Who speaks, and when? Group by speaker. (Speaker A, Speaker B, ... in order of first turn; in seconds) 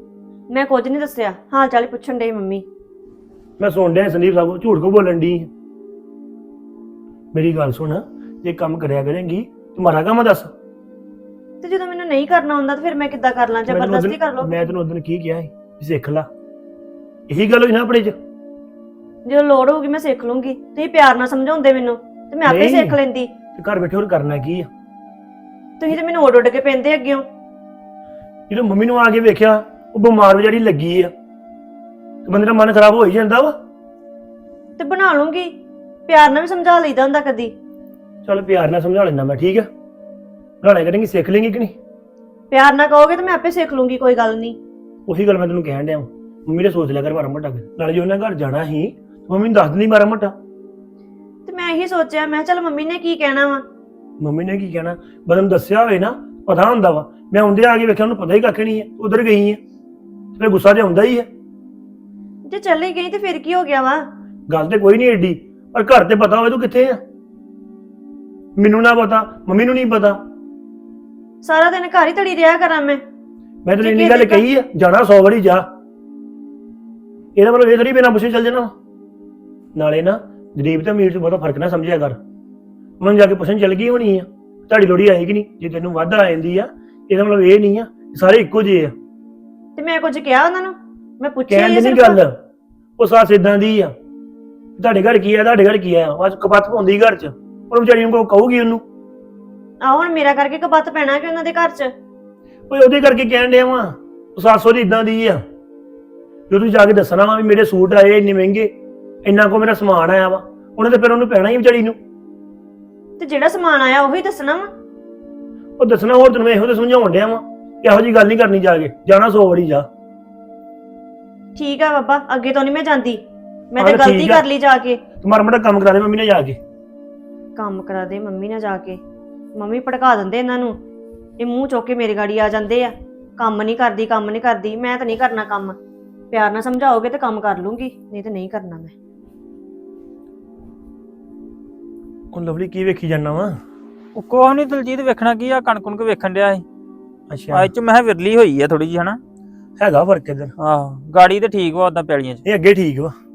Speaker A: 0.5-2.6, 11.6-14.7, 19.2-23.3, 25.8-27.2, 34.8-35.5, 36.1-37.5, 42.5-44.6, 51.5-53.6, 62.4-64.1, 71.4-73.0, 73.8-74.4, 89.8-92.2, 99.8-101.9, 113.2-114.7, 121.5-125.0, 127.5-129.0, 129.5-130.8, 131.4-135.8, 136.3-138.9
Speaker B: 3.6-5.5, 7.3-10.5, 13.7-16.3, 17.3-18.1, 22.4-23.0, 23.6-24.7, 28.5-31.1, 32.2-33.6, 38.2-39.7, 40.6-41.8, 45.0-50.3, 54.2-59.6, 60.4-61.3, 64.5-67.0, 68.6-70.2, 73.6-75.7, 77.3-78.7, 79.7-82.2, 83.0-88.9, 91.5-92.4, 93.0-93.9, 94.8-98.8, 102.7-105.4, 106.5-112.0, 115.8-119.9, 123.8-124.4, 125.2-126.6, 142.3-143.6, 147.3-147.7, 149.8-150.5, 152.4-153.1
Speaker C: 144.2-146.6, 147.5-149.2, 150.6-152.4